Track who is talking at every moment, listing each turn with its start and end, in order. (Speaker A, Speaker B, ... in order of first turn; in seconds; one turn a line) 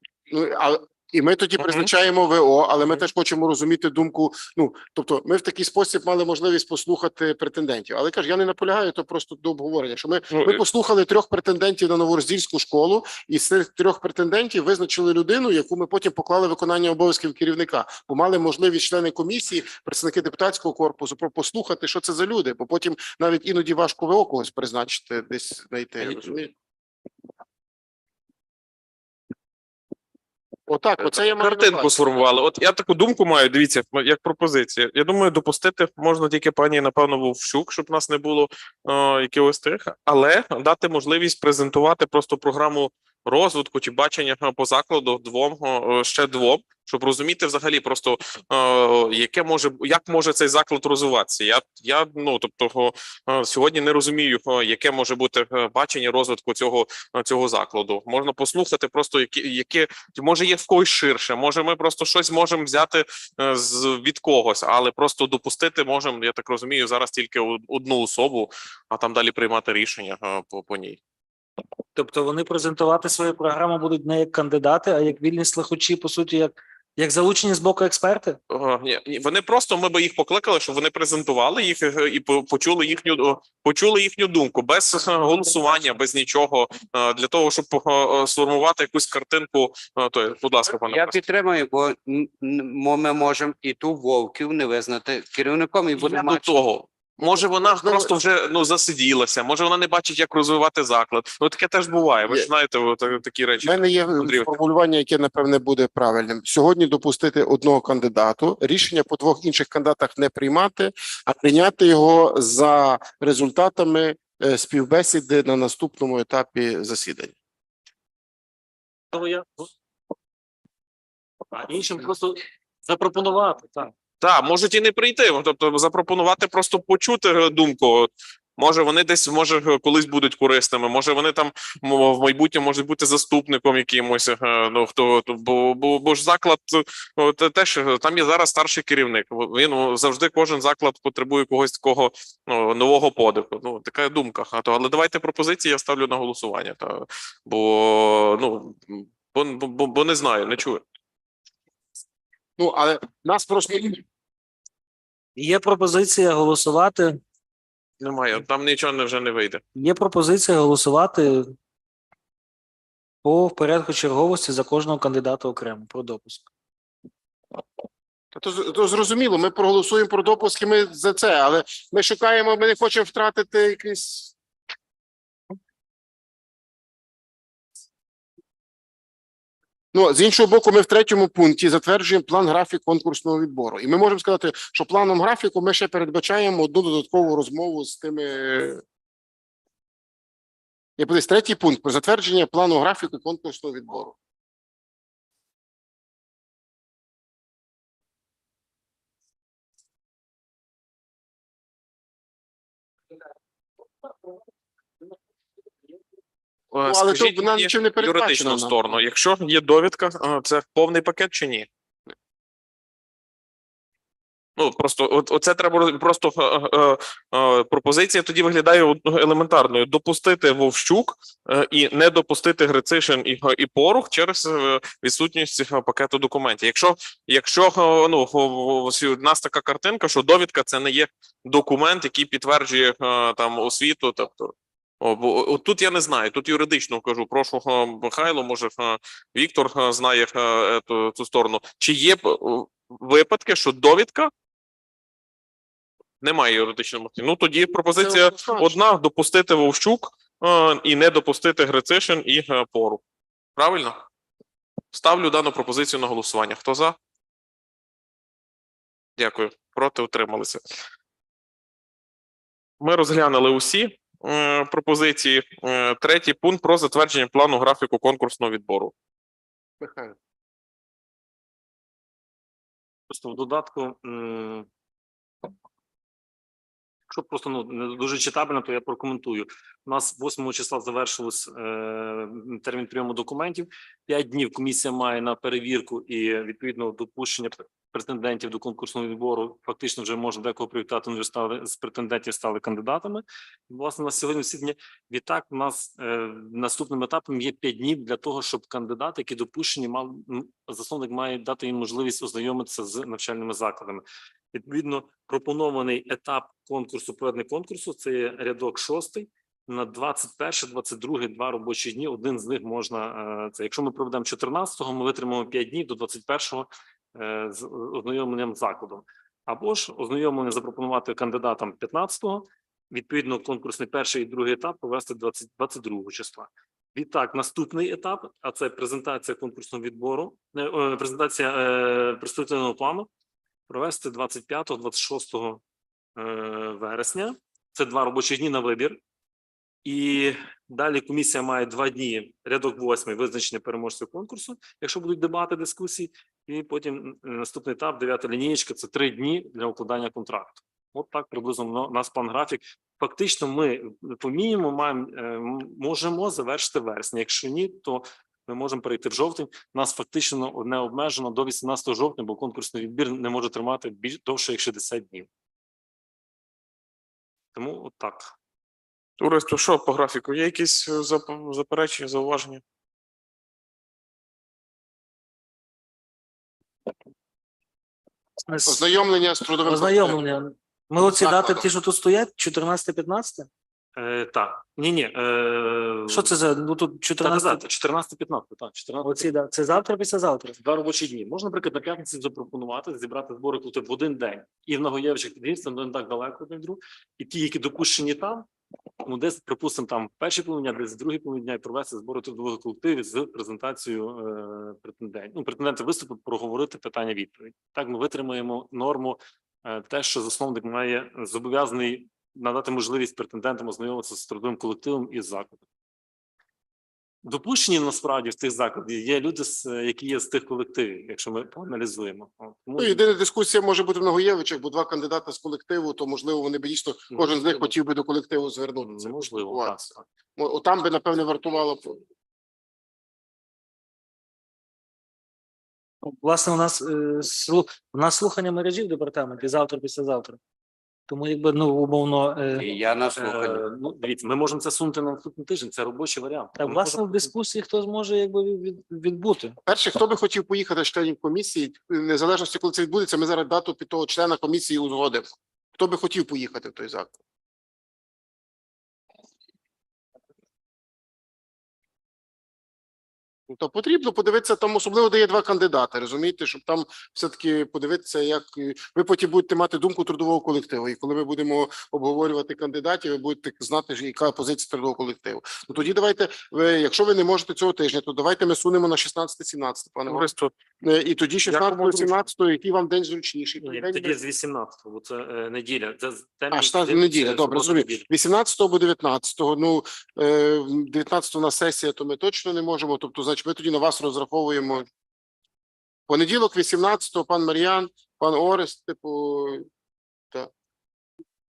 Speaker A: 0.3-26.5
Speaker B: 1.6-1.9
Speaker B: 10.3-10.6
Speaker A: 30.7-31.9
Speaker B: 31.0-71.0
Speaker C: 72.0-78.4
Speaker B: 78.5-91.2
Speaker D: 90.9-96.5
Speaker B: 96.0-104.5
Speaker A: 97.8-98.1
Speaker A: 103.6-117.3
Speaker E: 119.1-119.7
Speaker E: 121.5-123.9
Speaker B: 124.2-150.8
Speaker A: 152.6-154.0
Speaker C: 155.4-157.2
Speaker B: 158.0-159.6
Speaker C: 159.8-161.5
Speaker C: 163.2-166.5
Speaker A: 168.3-174.3
Speaker A: 179.9-188.8
Speaker A: 191.0-194.2
Speaker B: 206.7-211.7
Speaker A: 206.8-208.8
Speaker B: 214.6-244.3
Speaker B: 246.2-253.0
Speaker A: 248.0-248.8
Speaker B: 253.6-254.0
Speaker B: 254.9-257.0
Speaker B: 259.2-260.6
Speaker B: 262.8-268.9
Speaker A: 269.8-270.1
Speaker E: 273.1-274.7
Speaker E: 277.1-333.1
Speaker E: 333.7-335.6
Speaker E: 336.2-339.0
Speaker E: 339.9-365.3
Speaker E: 367.6-368.3
Speaker B: 369.2-372.6
Speaker C: 378.5-378.9
Speaker A: 378.7-380.2
Speaker C: 379.6-383.5
Speaker A: 381.0-381.7
Speaker E: 384.0-386.3
Speaker C: 386.1-387.6
Speaker E: 387.2-389.3
Speaker C: 389.0-390.6
Speaker E: 390.6-398.5
Speaker E: 399.0-415.6
Speaker E: 417.2-423.0
Speaker A: 422.8-429.8
Speaker E: 427.1-427.7
Speaker E: 428.8-430.0
Speaker A: 430.4-432.0
Speaker C: 436.1-440.4
Speaker C: 441.1-442.7
Speaker D: 442.6-443.6
Speaker E: 443.2-447.3
Speaker C: 446.6-449.6
Speaker A: 449.7-457.1
Speaker A: 463.5-480.3
Speaker B: 480.1-480.6
Speaker A: 480.8-484.2
Speaker B: 481.4-482.2
Speaker E: 483.6-488.1
Speaker A: 486.5-494.9
Speaker A: 496.1-499.7